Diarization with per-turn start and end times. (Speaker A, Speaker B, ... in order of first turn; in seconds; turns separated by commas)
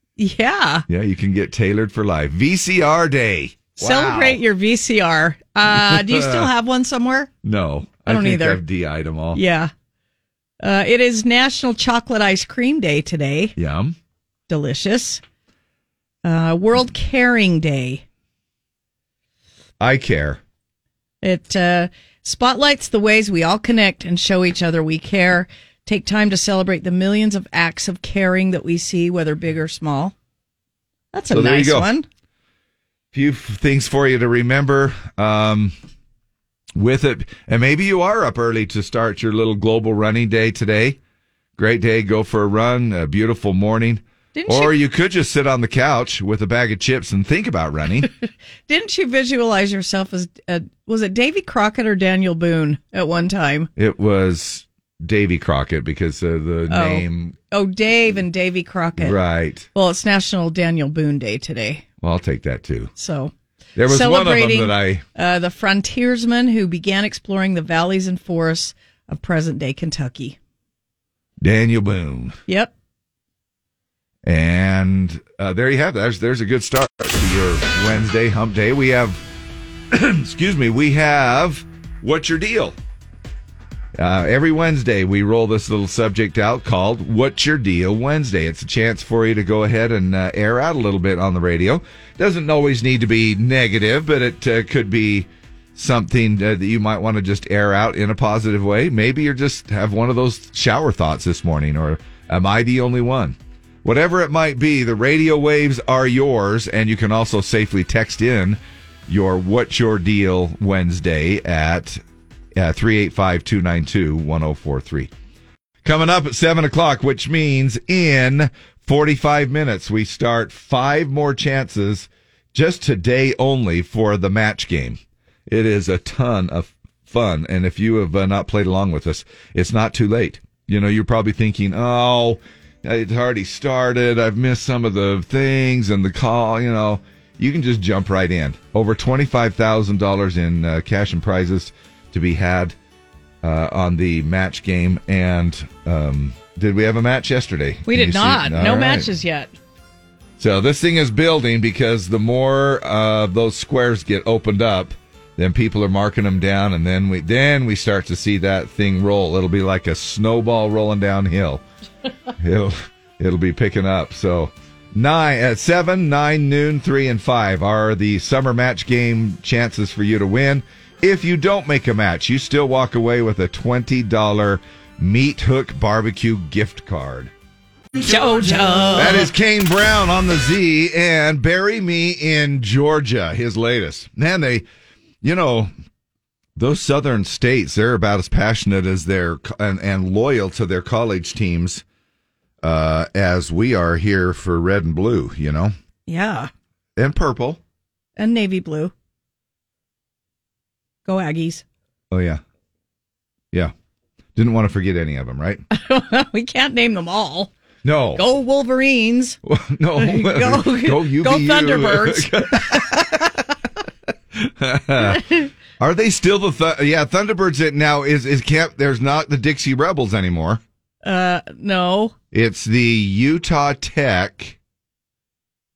Speaker A: 0.2-0.9, Speaker B: 0.9-4.4, Speaker A: 3.8-7.3, Speaker B: 5.7-6.5, Speaker B: 7.4-9.4, Speaker A: 8.1-8.6, Speaker A: 9.3-9.7, Speaker A: 10.6-13.6, Speaker B: 13.6-14.0, Speaker A: 14.5-15.2, Speaker A: 16.2-18.0, Speaker B: 19.8-20.4, Speaker A: 21.2-30.1, Speaker A: 31.1-32.0, Speaker B: 31.3-31.9, Speaker B: 33.1-35.7, Speaker B: 36.8-41.0, Speaker B: 41.6-48.1, Speaker A: 44.4-44.8, Speaker A: 48.7-53.7, Speaker B: 53.8-57.4, Speaker A: 56.7-59.2, Speaker B: 59.0-59.7, Speaker A: 59.8-61.9, Speaker B: 62.0-62.9, Speaker A: 63.0-63.3, Speaker B: 63.8-65.0, Speaker A: 63.9-70.4, Speaker B: 71.4-72.4, Speaker A: 72.5-72.7, Speaker B: 74.2-79.2, Speaker B: 79.9-82.8, Speaker B: 84.0-112.0, Speaker B: 112.6-115.1, Speaker B: 115.8-142.8, Speaker B: 143.4-149.1, Speaker A: 147.9-149.5, Speaker B: 150.4-161.6, Speaker B: 162.4-177.3, Speaker A: 178.0-179.3, Speaker B: 178.9-184.7, Speaker B: 185.2-185.7, Speaker B: 186.6-191.8, Speaker B: 192.6-195.7, Speaker A: 196.1-196.5, Speaker B: 197.0-197.6, Speaker A: 198.2-198.9, Speaker A: 201.1-201.6, Speaker B: 202.1-202.4, Speaker B: 204.3-205.6, Speaker A: 205.7-207.5, Speaker B: 207.8-208.2, Speaker A: 208.2-209.4, Speaker B: 209.4-213.2, Speaker A: 210.0-213.2, Speaker B: 214.3-215.3, Speaker A: 215.1-215.4, Speaker B: 215.8-220.6, Speaker A: 221.1-222.1, Speaker B: 222.3-224.6